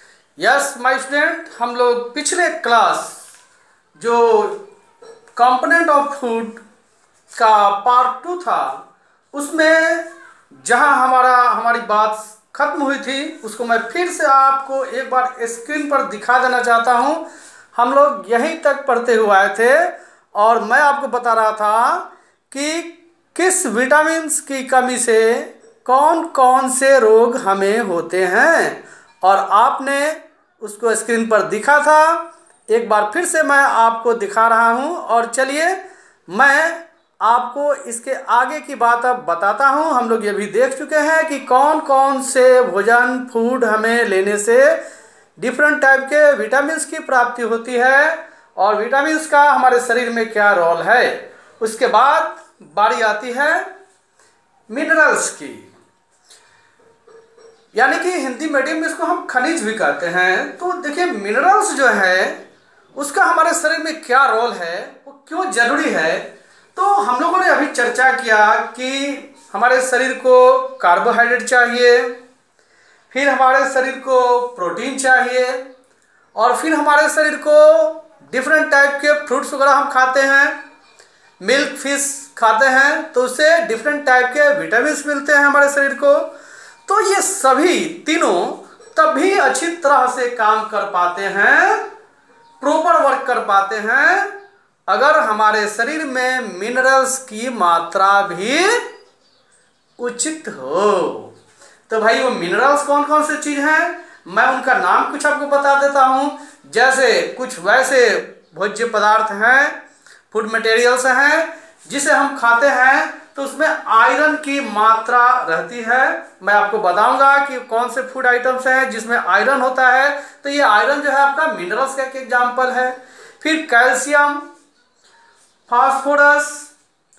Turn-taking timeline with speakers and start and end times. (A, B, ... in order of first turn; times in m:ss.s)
0:00.4-0:03.2 A
0:04.0-0:04.6 A
0:05.4-0:06.6 A
0:07.3-0:10.1 A
0:10.6-0:44.8 A
0:45.4-0:53.6 A
0:54.7-0:55.7 A
0:57.7-1:02.4 A
1:03.0-1:12.1 A
1:13.1-1:15.6 A
1:16.4-1:20.6 A
1:21.4-1:26.3 A
1:26.9-1:31.9 A
1:32.6-1:34.3 A
1:34.9-1:38.8 A
1:40.0-1:41.3 A
1:41.9-1:49.8 A
1:50.3-2:04.4 A
2:05.7-2:06.7 A